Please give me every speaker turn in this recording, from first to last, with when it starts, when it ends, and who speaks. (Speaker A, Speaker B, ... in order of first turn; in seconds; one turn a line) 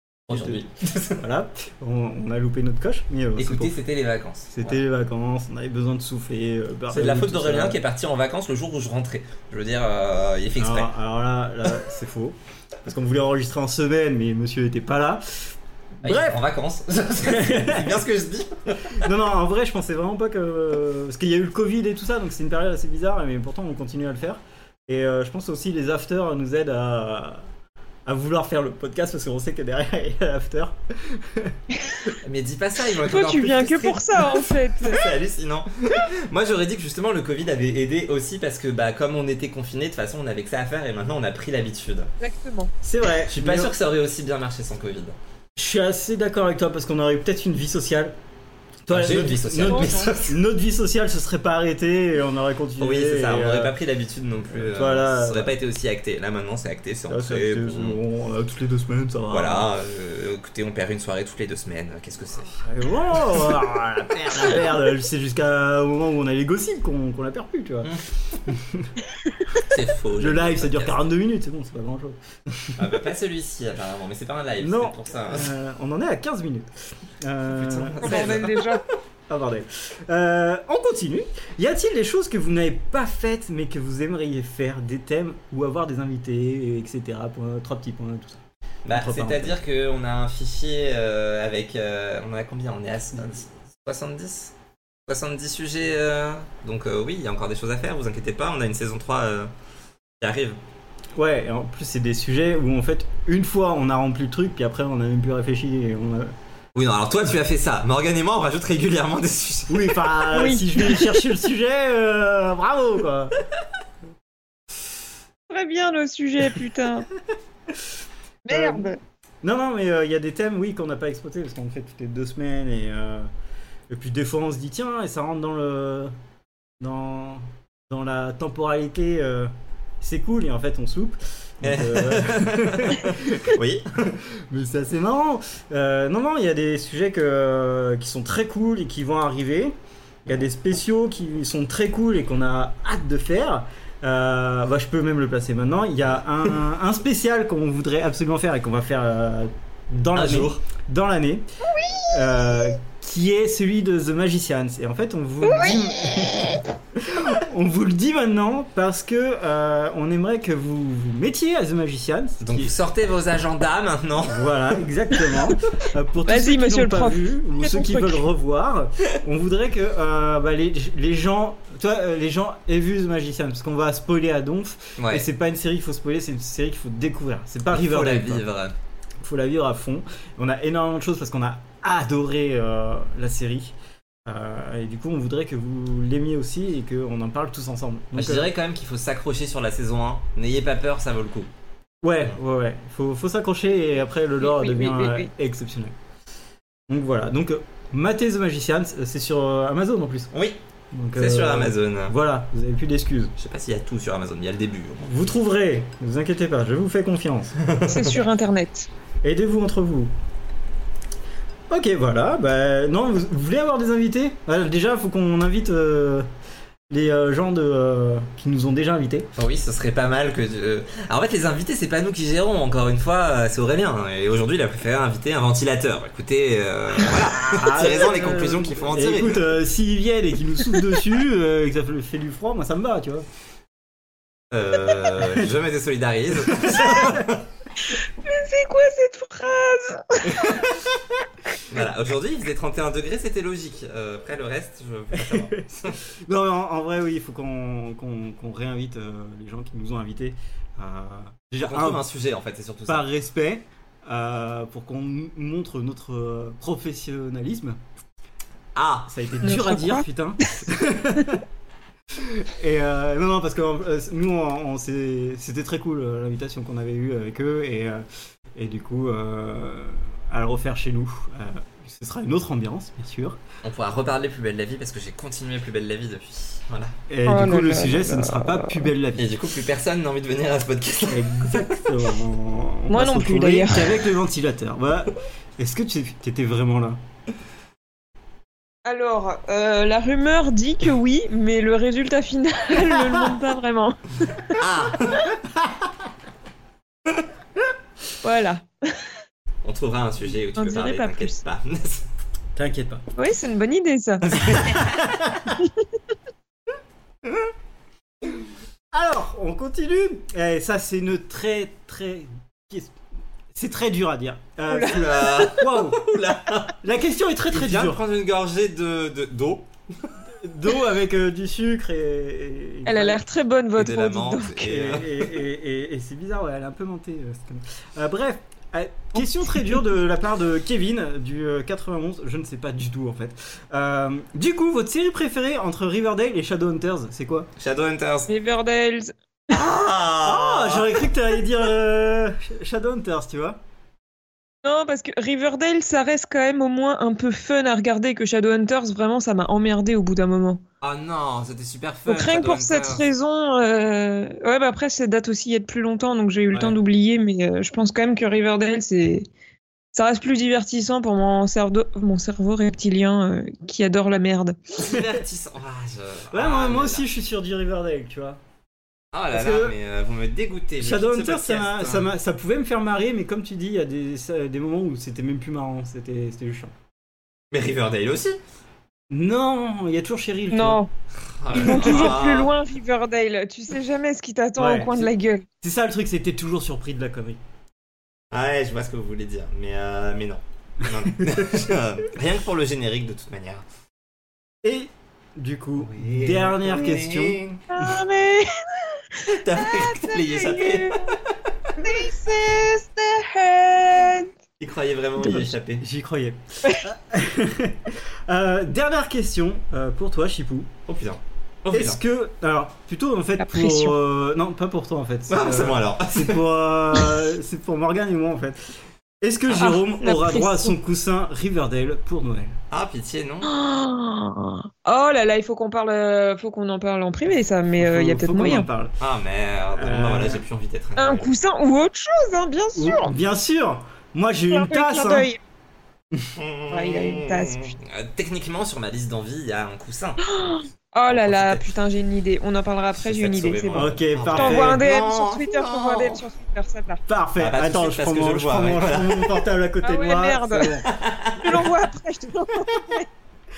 Speaker A: 0.3-1.2
Speaker B: 0.3-3.8
Speaker A: 3.4-4.8
Speaker B: 4.5-7.8
Speaker A: 6.9-10.9
Speaker B: 10.6-16.4
Speaker A: 16.0-19.1
Speaker B: 17.2-17.9
Speaker B: 18.9-27.5
Speaker B: 28.1-31.6
Speaker A: 32.2-42.1
Speaker C: 33.0-35.0
Speaker C: 42.2-42.7
Speaker B: 42.8-43.7
Speaker A: 43.2-45.1
Speaker B: 45.6-48.1
Speaker B: 48.9-53.8
Speaker A: 48.9-50.4
Speaker C: 49.6-50.1
Speaker A: 52.8-58.0
Speaker B: 54.6-55.5
Speaker B: 57.1-59.7
Speaker A: 59.3-62.6
Speaker B: 62.6-68.9
Speaker A: 67.8-68.4
Speaker A: 69.6-71.0
Speaker B: 70.2-72.8
Speaker A: 72.8-75.5
Speaker B: 74.6-76.7
Speaker B: 77.2-78.5
Speaker A: 77.5-78.8
Speaker C: 78.0-78.8
Speaker B: 79.3-89.6
Speaker A: 88.9-94.5
Speaker A: 95.1-99.5
Speaker A: 100.2-100.6
Speaker B: 101.2-106.3
Speaker A: 106.8-110.1
Speaker B: 109.7-113.4
Speaker C: 110.3-111.2
Speaker C: 115.5-117.1
Speaker C: 118.5-119.0
Speaker B: 118.5-118.9
Speaker B: 119.4-123.3
Speaker B: 123.9-126.1
Speaker B: 126.8-139.7
Speaker A: 131.6-133.9
Speaker B: 140.2-151.4
Speaker A: 150.1-150.6
Speaker C: 151.8-152.6
Speaker B: 152.1-162.7
Speaker C: 155.5-156.6
Speaker A: 162.4-164.8
Speaker B: 164.2-178.4
Speaker C: 166.3-168.2
Speaker A: 175.0-175.2
Speaker A: 177.7-178.8
Speaker B: 179.2-188.5
Speaker A: 188.2-191.5
Speaker B: 192.0-195.9
Speaker C: 194.4-195.3
Speaker B: 196.9-200.3
Speaker A: 200.3-200.6
Speaker B: 200.9-203.3
Speaker A: 201.2-202.2
Speaker A: 203.4-205.1
Speaker B: 205.0-207.6
Speaker A: 207.6-208.2
Speaker C: 207.9-208.9
Speaker B: 209.2-210.1
Speaker B: 211.7-216.3
Speaker B: 216.9-219.3
Speaker A: 219.3-229.5
Speaker B: 227.0-233.2
Speaker A: 234.5-237.5
Speaker B: 236.5-237.3
Speaker C: 237.8-240.7
Speaker B: 240.3-240.7
Speaker A: 241.7-246.0
Speaker B: 245.2-252.0
Speaker A: 251.6-253.1
Speaker B: 252.9-257.8
Speaker A: 258.8-259.1
Speaker B: 259.1-261.4
Speaker C: 259.4-260.5
Speaker B: 262.1-273.4
Speaker A: 273.6-276.9
Speaker B: 277.1-279.3
Speaker C: 277.2-278.9
Speaker A: 279.2-282.0
Speaker B: 281.1-287.0
Speaker C: 282.9-284.0
Speaker C: 288.8-294.6
Speaker A: 294.6-295.3
Speaker C: 298.2-299.1
Speaker A: 299.6-302.1
Speaker C: 300.6-301.4
Speaker B: 302.6-303.0
Speaker C: 303.2-304.3
Speaker A: 304.2-305.0
Speaker B: 304.4-305.6
Speaker C: 305.6-305.8
Speaker B: 307.2-307.5
Speaker B: 308.9-313.0
Speaker B: 313.5-316.1
Speaker C: 314.7-315.1
Speaker A: 314.8-316.8
Speaker B: 316.8-318.0
Speaker A: 317.5-320.1
Speaker B: 320.3-323.2
Speaker C: 322.9-324.7
Speaker A: 323.8-325.4
Speaker B: 324.6-337.5
Speaker C: 329.1-329.8
Speaker A: 337.6-338.3
Speaker C: 338.3-339.1
Speaker A: 339.5-341.1
Speaker B: 340.2-343.6
Speaker C: 344.6-350.6
Speaker A: 350.8-353.0
Speaker C: 352.1-359.3
Speaker C: 359.9-364.8
Speaker A: 364.8-367.1
Speaker B: 366.3-368.4
Speaker A: 369.1-372.1
Speaker B: 369.3-369.8
Speaker B: 370.8-376.7
Speaker A: 377.5-378.4
Speaker B: 379.1-380.8
Speaker C: 380.5-380.9
Speaker A: 381.2-382.5
Speaker C: 381.5-385.5
Speaker B: 381.5-382.2
Speaker B: 384.6-387.4
Speaker A: 388.3-393.6
Speaker B: 391.0-391.6
Speaker B: 394.6-397.9
Speaker A: 395.8-397.6
Speaker C: 397.7-401.1
Speaker A: 399.3-401.7
Speaker C: 401.8-404.3
Speaker A: 404.6-405.8
Speaker B: 405.2-410.7
Speaker A: 410.9-412.0
Speaker B: 411.7-422.6
Speaker C: 413.4-413.9
Speaker A: 415.3-416.4
Speaker C: 419.6-420.7
Speaker A: 422.7-423.5
Speaker C: 423.4-428.7
Speaker B: 427.8-429.0
Speaker A: 429.0-431.3
Speaker B: 429.7-430.4
Speaker C: 431.0-433.1
Speaker B: 432.8-435.3
Speaker C: 434.5-435.4
Speaker A: 436.3-440.2
Speaker C: 436.7-437.7
Speaker C: 440.2-447.0
Speaker A: 441.1-441.7
Speaker A: 442.9-446.2
Speaker B: 443.8-444.8
Speaker B: 447.1-450.9
Speaker A: 447.4-449.4
Speaker C: 449.8-453.1
Speaker A: 450.9-451.7